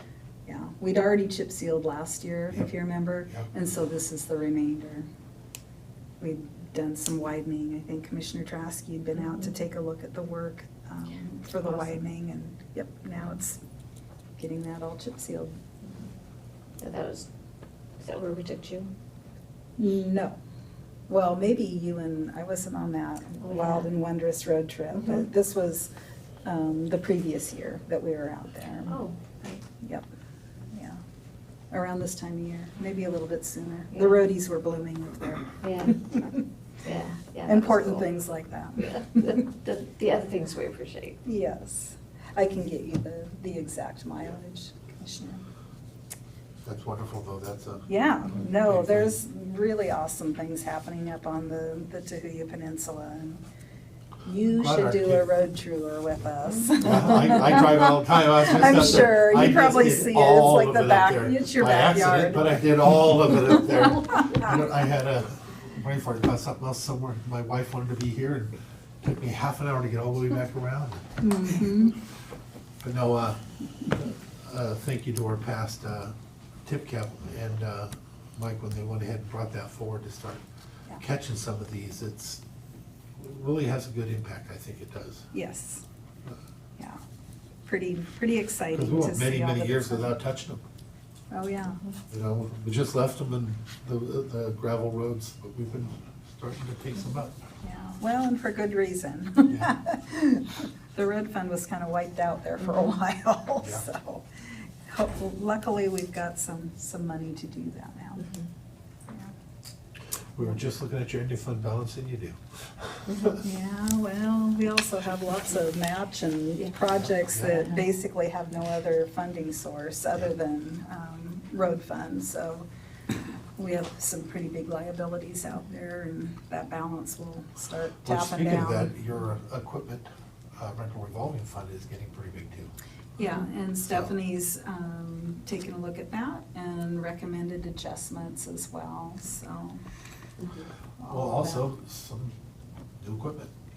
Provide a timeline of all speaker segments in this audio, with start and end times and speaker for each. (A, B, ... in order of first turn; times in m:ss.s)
0:00.5-0:05.1 A
0:06.2-0:13.6 A
0:11.6-0:11.9 B
0:14.4-0:15.5 A
0:16.8-0:17.3 B
0:18.0-0:18.9 B
0:19.8-0:20.4 A
0:21.1-0:25.9 A
0:23.4-0:23.9 B
0:26.4-0:29.0 A
0:28.9-0:29.6 B
0:29.8-0:30.1 A
0:30.7-0:31.0 A
0:31.7-0:36.4 A
0:33.9-0:34.2 B
0:35.6-0:36.1 B
0:36.8-0:38.1 B
0:37.5-0:39.4 A
0:38.8-0:41.2 B
0:41.2-0:45.4 A
0:46.6-0:49.1 C
0:47.9-0:53.4 A
0:54.2-1:02.6 A
0:54.5-0:55.3 C
0:56.8-1:11.0 C
1:11.2-1:12.0 A
1:12.8-1:16.1 C
1:16.6-1:20.4 C
1:21.0-1:22.4 C
1:23.2-1:25.3 C
1:25.3-1:25.8 A
1:27.6-1:30.1 A
1:28.7-1:30.6 C
1:31.3-1:31.8 A
1:32.1-1:37.4 C
1:37.6-1:44.3 A
1:44.8-1:48.3 A
1:49.1-1:49.3 A
1:50.4-1:53.4 C
1:53.4-2:02.7 A
1:56.9-1:57.7 C
2:03.6-2:08.9 A
2:08.0-2:10.1 C
2:10.6-2:12.7 C
2:13.2-2:19.8 A
2:13.9-2:14.1 C
2:20.4-2:20.7 B
2:21.0-2:21.7 A
2:21.1-2:22.4 C
2:23.0-2:23.5 C